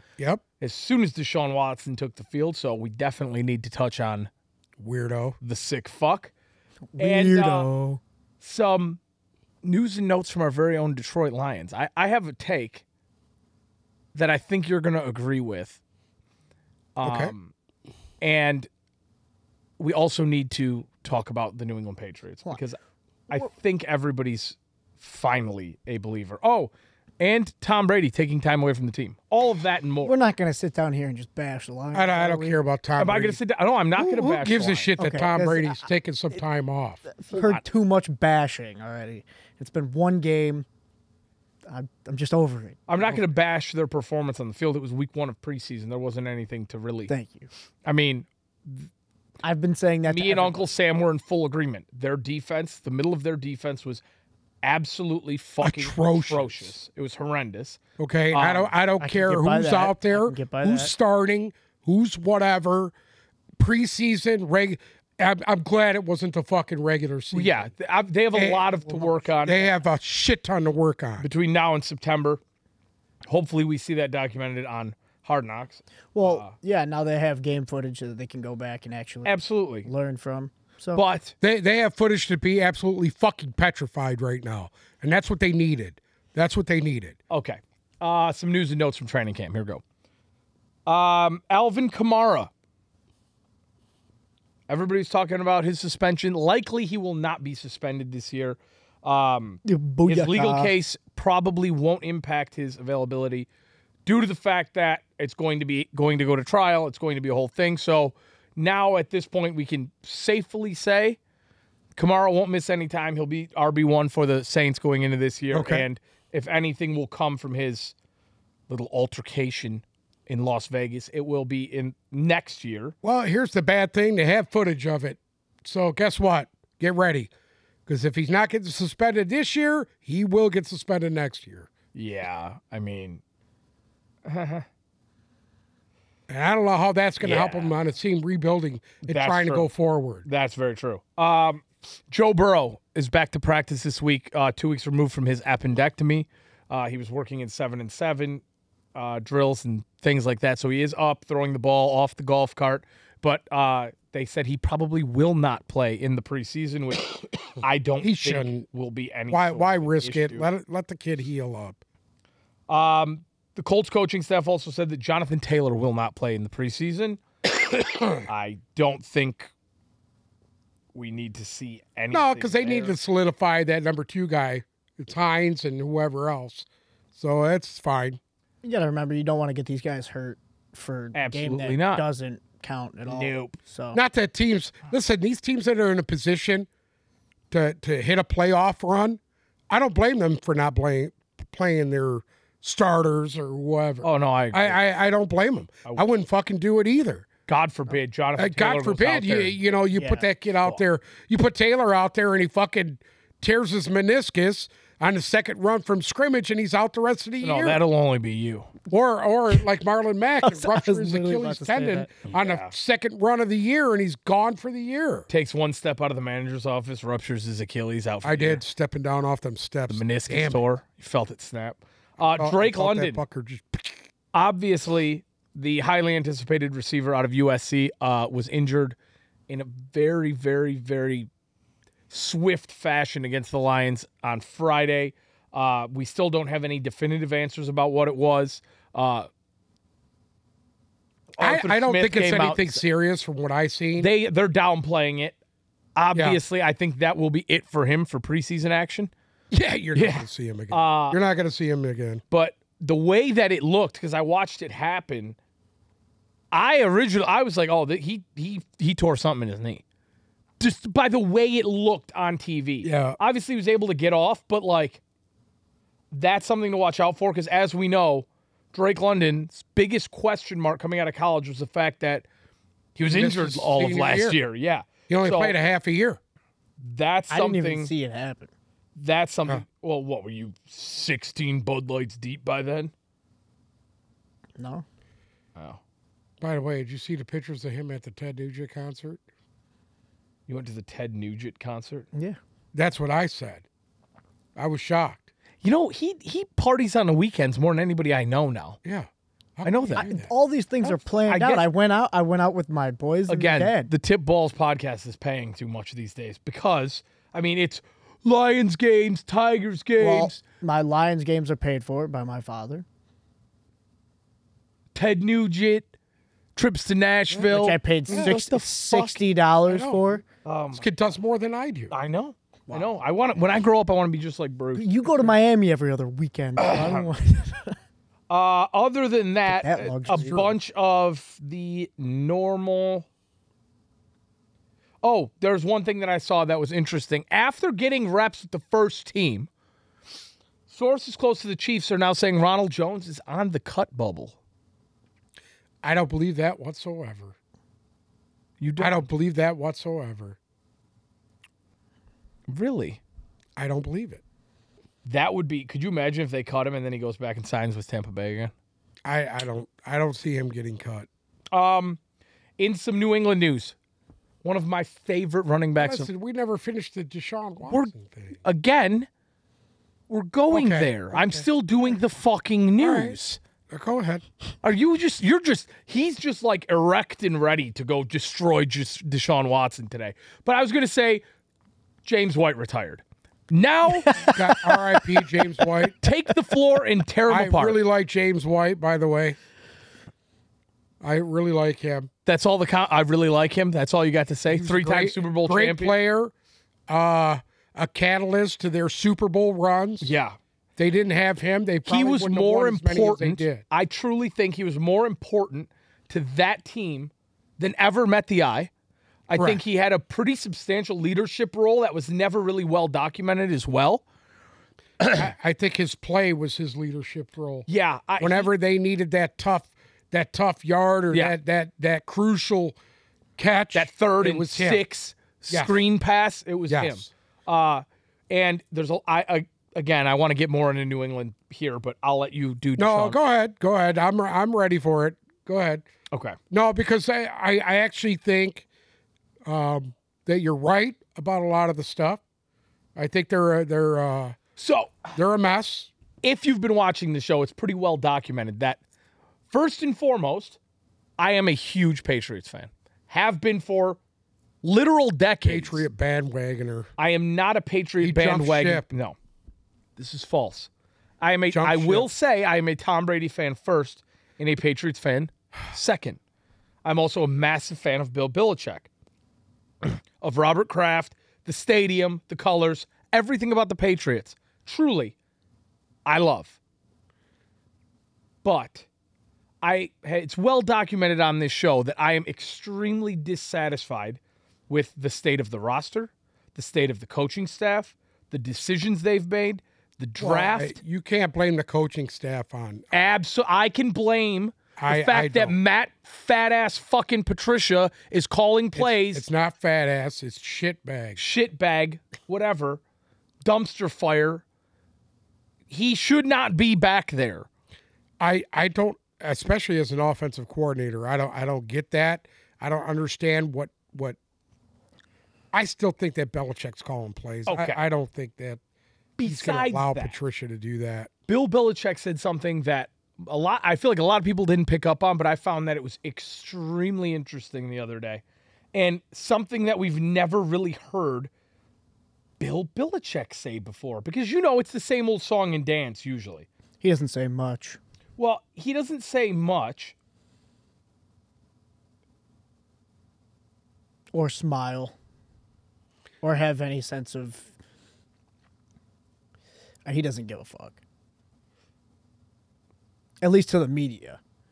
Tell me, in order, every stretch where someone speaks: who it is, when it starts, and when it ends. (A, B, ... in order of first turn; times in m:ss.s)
0:00.2-0:00.4 A
0:00.6-0:04.3 B
0:04.8-0:05.4 A
0:05.4-0:06.3 B
0:06.9-0:08.0 C
0:07.0-0:07.7 B
0:08.4-0:09.0 B
0:09.6-0:12.8 B
0:14.2-0:15.8 B
0:17.0-0:17.5 B
0:17.0-0:17.3 A
0:18.2-0:18.7 B
0:19.8-0:22.8 B
0:23.3-0:30.1 B
0:30.0-0:32.6 C
0:31.9-0:33.4 A
0:33.0-0:34.9 B
0:34.0-0:37.0 A
0:35.0-0:35.9 C
0:37.1-0:40.7 C
0:37.3-0:37.6 B
0:41.7-0:43.2 C
0:42.9-0:47.1 B
0:47.1-0:47.5 C
0:47.8-0:48.9 B
0:49.4-0:50.7 C
0:50.1-0:54.0 B
0:54.6-0:57.8 B
0:55.6-0:56.7 A
0:58.0-1:02.9 A
0:58.3-0:58.7 B
0:59.0-1:00.9 C
1:03.6-1:07.7 A
1:07.3-1:09.6 B
1:08.3-1:08.8 A
1:09.4-1:11.3 A
1:11.2-1:12.4 B
1:13.3-1:16.5 B
1:16.2-1:19.3 C
1:19.2-1:19.9 B
1:19.8-1:21.0 C
1:21.0-1:21.3 B
1:21.4-1:27.2 A
1:27.3-1:29.8 B
1:30.9-1:32.5 B
1:34.7-1:43.5 B
1:39.6-1:40.7 C
1:44.0-1:51.2 B
1:52.0-1:57.9 B
1:55.5-1:55.9 A
1:58.7-2:03.0 B
2:03.0-2:07.3 A
2:07.9-2:11.7 A
2:11.9-2:13.2 B
2:14.3-2:14.7 B
2:16.3-2:20.3 A
2:17.2-2:17.8 B
2:19.1-2:19.7 B
2:20.3-2:28.4 B
2:29.0-2:40.5 B
2:38.0-2:38.7 A
2:39.3-2:41.8 A
2:42.7-2:47.2 B
2:48.0-2:49.5 B
2:50.9-2:53.0 B
2:52.1-2:58.2 A
2:58.6-3:04.0 C
3:01.1-3:02.0 B
3:03.1-3:03.6 B
3:03.9-3:06.7 A
3:07.5-3:17.3 A
3:14.0-3:14.8 B
3:17.5-3:19.6 B
3:18.4-3:27.8 A
3:19.9-3:20.3 C
3:27.4-3:28.7 B
3:28.9-3:35.3 A
3:30.4-3:32.1 C
3:32.3-3:32.7 B
3:35.3-3:38.6 B
3:38.2-3:40.6 A
3:39.9-3:43.2 B
3:42.3-3:44.1 A
3:44.3-3:49.0 B
3:49.5-3:51.3 B
3:52.1-3:59.3 B
4:01.4-4:02.8 B
4:01.4-4:04.1 A
4:04.0-4:05.4 B
4:06.0-4:09.1 B
4:06.2-4:06.4 A
4:09.5-4:12.2 A
4:10.0-4:11.2 B
4:12.3-4:15.4 B
4:16.5-4:19.8 B
4:20.6-4:25.0 B
4:22.8-4:23.2 A
4:26.1-4:32.3 B
4:33.0-4:35.6 B
4:33.1-4:34.4 A
4:35.1-4:36.2 A
4:36.8-4:37.9 B
4:37.3-4:38.5 C
4:39.0-4:42.9 B
4:44.6-4:44.8 C
4:46.4-4:49.2 A
4:50.5-4:52.1 B
4:52.1-4:52.4 C
4:52.7-4:53.6 A
4:54.6-4:55.3 A
4:55.6-4:58.8 B
4:58.8-5:00.3 A
4:59.6-5:00.1 B
5:00.0-5:03.9 C
5:00.8-5:01.7 B
5:03.3-5:10.4 B
5:10.0-5:12.8 C
5:14.9-5:15.9 B
5:16.6-5:19.2 B
5:17.3-5:17.6 A
5:17.5-5:20.2 C
5:18.1-5:18.4 A
5:19.7-5:20.2 A
5:20.4-5:20.8 B
5:20.8-5:21.9 A
5:21.9-5:25.3 B
5:22.7-5:22.9 C
5:24.8-5:27.8 C
5:26.6-5:27.1 B
5:28.3-5:33.1 B
5:29.5-5:30.4 C
5:30.1-5:30.6 A
5:35.0-5:39.5 B
5:40.7-5:44.4 B
5:45.8-5:47.4 A
5:48.6-5:49.1 B
5:48.8-5:50.4 A
5:52.5-5:53.0 B
5:53.6-5:54.2 A
5:55.0-5:58.5 B
5:59.1-6:01.1 A
6:01.5-6:02.0 B
6:02.6-6:03.8 B
6:04.4-6:06.1 B
6:05.8-6:08.4 A
6:07.7-6:07.9 B
6:08.4-6:09.1 B
6:10.1-6:13.4 B
6:10.5-6:11.5 A
6:12.8-6:13.2 A
6:13.7-6:14.2 A
6:14.6-6:21.2 B
6:22.0-6:24.5 B
6:24.3-6:26.0 A
6:26.0-6:27.8 B
6:27.3-6:29.4 A
6:31.0-6:32.1 A
6:32.3-6:36.0 B
6:34.5-6:36.3 A
6:36.9-6:40.1 A
6:40.0-6:40.4 B
6:40.8-6:43.6 A
6:41.9-6:48.7 B
6:49.3-6:54.0 B
6:49.4-6:49.6 A
6:55.1-6:57.7 A
6:57.7-6:58.5 B
6:58.2-7:02.8 A
7:03.4-7:04.8 A
7:03.7-7:13.2 B
7:05.5-7:05.8 A
7:06.7-7:07.1 A
7:12.8-7:15.8 A
7:16.5-7:18.7 A
7:19.5-7:22.2 A
7:23.0-7:24.4 A
7:24.6-7:25.1 B
7:25.2-7:25.9 A
7:26.2-7:28.8 B
7:29.5-7:30.6 B
7:31.2-7:34.0 B
7:34.6-7:35.9 B
7:35.4-7:36.9 A
7:37.0-7:39.2 B
7:38.0-7:38.8 A
7:40.0-7:40.7 B
7:41.2-7:46.2 B
7:41.5-7:42.1 A
7:46.8-7:48.9 B
7:49.8-7:55.1 B
7:56.1-7:56.6 B
7:58.4-7:58.9 B
7:59.6-8:10.8 B
8:10.2-8:13.1 A
8:12.9-8:19.3 B
8:14.8-8:15.6 A
8:18.8-8:21.2 A
8:21.2-8:22.8 B
8:23.4-8:24.4 B
8:25.7-8:27.5 B
8:28.2-8:34.2 A
8:35.5-8:38.6 A
8:37.5-8:37.8 B
8:39.2-8:40.1 B
8:39.2-8:41.1 A
8:41.3-8:48.2 B
8:48.7-8:51.3 B
8:52.4-8:56.5 B
8:56.8-8:57.8 C
8:58.2-9:00.0 B
9:04.1-9:04.9 C
9:06.2-9:07.5 C
9:09.9-9:10.8 C
9:13.2-9:14.2 C